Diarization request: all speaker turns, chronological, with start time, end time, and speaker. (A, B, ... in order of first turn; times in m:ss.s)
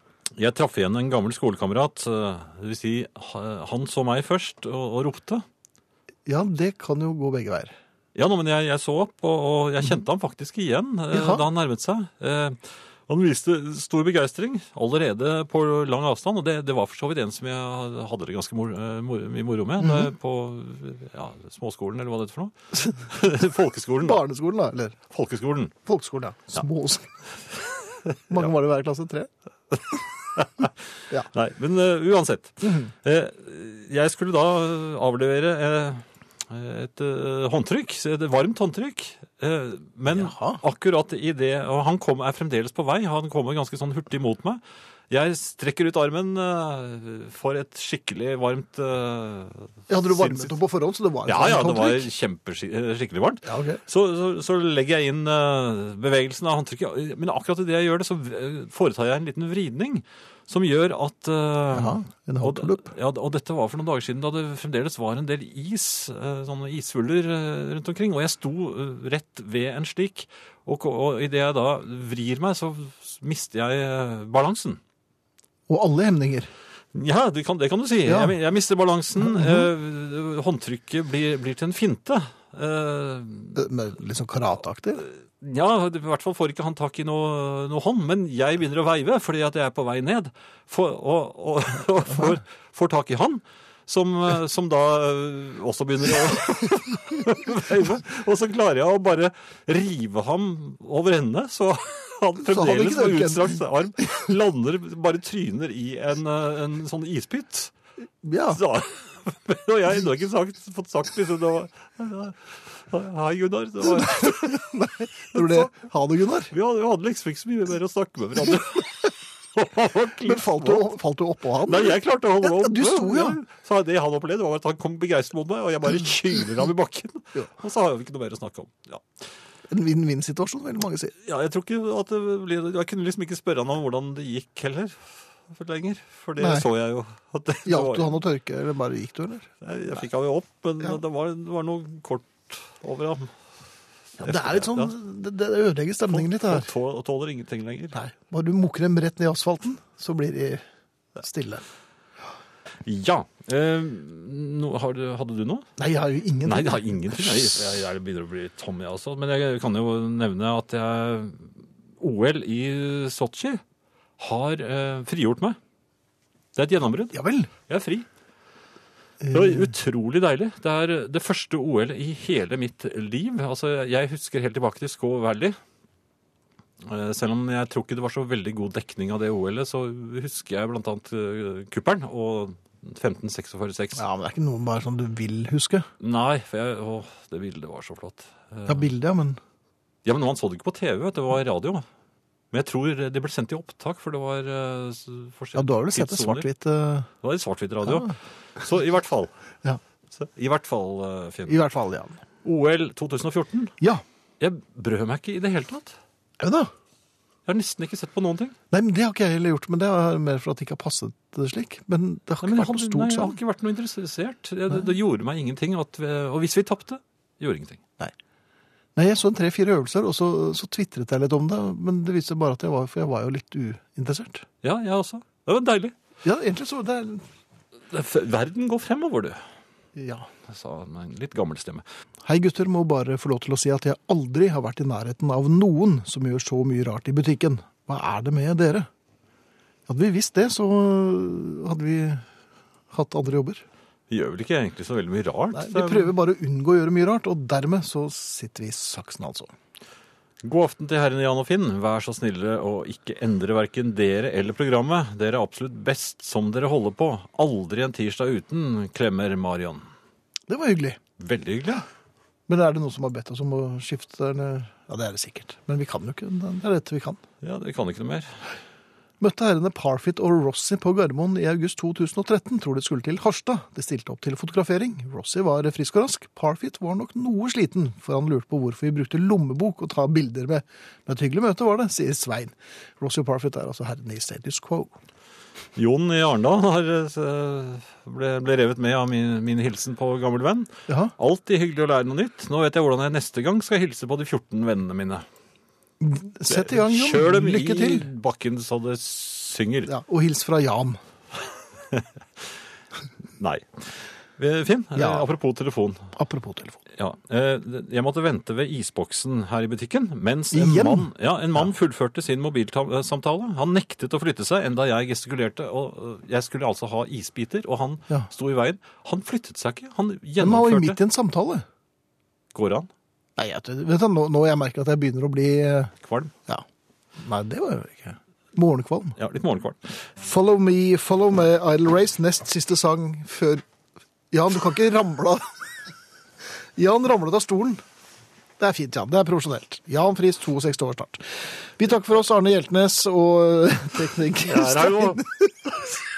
0:00.4-0:05.4 A
0:06.3-0:07.8 B
0:08.2-0:24.2 A
0:11.1-0:11.4 B
0:19.8-0:20.1 B
0:24.0-0:25.0 B
0:25.1-0:25.7 A
0:25.9-0:27.1 B
0:27.6-0:28.5 A
0:28.3-0:29.3 B
0:29.7-0:30.7 A
0:31.3-0:50.5 A
0:32.6-0:32.9 B
0:40.1-0:40.6 B
0:49.9-0:52.1 B
0:51.3-1:14.8 A
0:53.4-0:53.8 B
1:01.7-1:02.9 B
1:15.7-1:16.5 B
1:16.9-1:23.7 A
1:18.1-1:18.4 B
1:19.2-1:19.7 B
1:23.6-1:25.0 B
1:25.0-1:47.7 A
1:42.5-1:43.6 B
1:48.2-1:48.6 B
1:48.5-1:54.6 A
1:54.0-1:56.5 B
1:55.3-1:55.7 A
1:56.5-2:01.0 A
2:00.2-2:03.4 B
2:01.6-2:09.0 A
2:09.7-2:11.1 B
2:11.2-2:18.1 A
2:16.4-2:16.7 B
2:17.7-2:19.5 B
2:19.6-2:23.3 A
2:24.2-2:24.9 A
2:24.2-2:26.7 B
2:26.1-2:28.0 A
2:27.9-2:30.6 B
2:31.2-2:31.6 B
2:32.8-2:35.7 A
2:35.8-2:37.8 B
2:36.5-2:43.6 A
2:44.2-2:45.6 A
2:46.6-2:48.1 A
2:47.1-2:47.5 B
2:49.2-2:49.7 B
2:49.3-2:55.6 A
2:56.8-3:04.0 A
3:04.0-3:05.9 B
3:06.0-3:08.9 A
3:08.7-3:09.4 B
3:10.0-3:11.8 A
3:12.5-3:16.5 A
3:15.6-3:17.1 B
3:17.2-3:19.3 A
3:20.1-3:21.6 A
3:21.5-3:22.2 B
3:22.4-3:23.8 A
3:24.4-3:26.0 A
3:26.4-3:26.7 B
3:27.5-3:28.6 A
3:28.7-3:33.4 B
3:32.4-3:37.8 A
3:39.0-3:44.5 B
3:44.6-3:46.0 A
3:46.2-3:47.2 B
3:47.9-3:49.4 A
3:50.0-3:50.3 B
3:50.5-3:51.8 A
3:52.2-3:58.9 B
3:59.9-4:02.3 B
4:02.9-4:03.6 B
4:04.1-4:06.1 A
4:05.5-4:09.5 B
4:10.4-4:19.9 A
4:20.5-4:21.0 B
4:21.2-4:21.9 A
4:22.5-4:27.2 B
4:27.4-4:28.3 A
4:29.2-4:44.9 B
4:45.8-4:55.2 A
4:50.9-4:51.1 B
4:56.0-4:58.1 B
4:56.4-4:59.9 A
4:59.9-5:01.0 B
5:01.9-5:02.5 A
5:03.4-5:03.8 A
5:04.4-5:06.1 A
5:05.0-5:05.3 B
5:06.2-5:06.8 B
5:06.9-5:21.0 A
5:10.5-5:11.7 B
5:20.4-5:21.6 B
5:22.5-5:22.9 A
5:23.4-5:25.9 B
5:26.0-5:26.3 A
5:27.2-5:29.2 B
5:29.2-5:29.8 A
5:30.2-5:33.6 B
5:34.3-5:35.5 B
5:36.8-5:37.8 B
5:38.6-5:46.0 B
5:44.4-5:45.2 A